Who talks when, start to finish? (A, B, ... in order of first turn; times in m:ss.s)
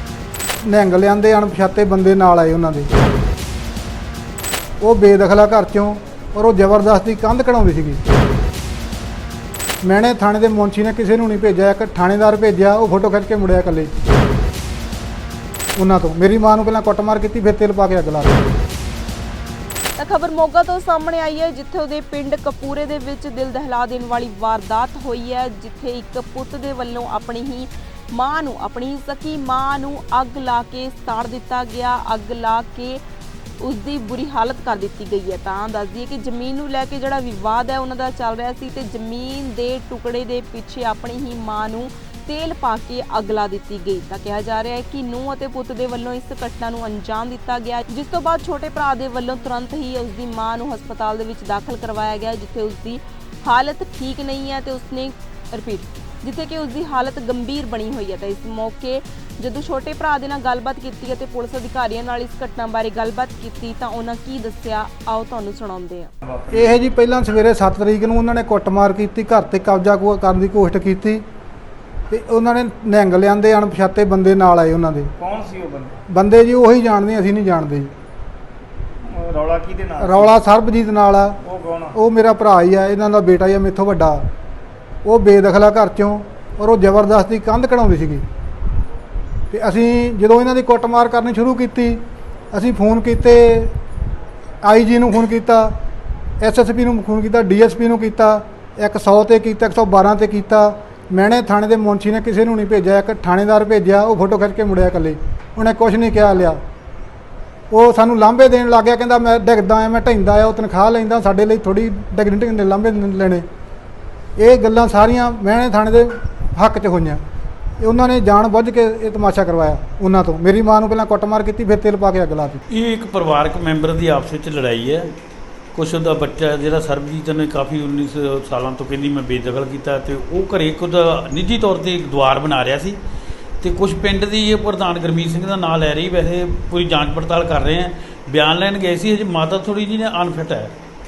0:00.6-0:02.9 A
0:04.8-0:08.0 A
0:09.8-0:14.0 A
0:15.8-0:18.4 A
0:20.0-0:33.0 B
0:33.6-1:06.1 B
1:06.2-1:06.8 C
1:06.5-1:11.2 A
1:12.1-1:15.1 A
1:15.2-1:16.0 C
1:16.1-1:17.9 A
1:19.0-1:20.4 C
1:20.0-1:21.4 A
1:21.4-1:22.0 C
1:22.0-1:24.2 A
1:25.0-1:28.2 A
1:29.5-1:32.0 A
1:32.5-1:33.7 A
1:34.6-1:35.7 A
1:36.4-1:46.6 A
1:47.7-1:53.4 A
1:54.4-1:57.2 A
1:57.8-2:02.6 A
2:02.7-2:05.1 D
2:05.7-2:13.0 D
2:13.6-2:20.7 D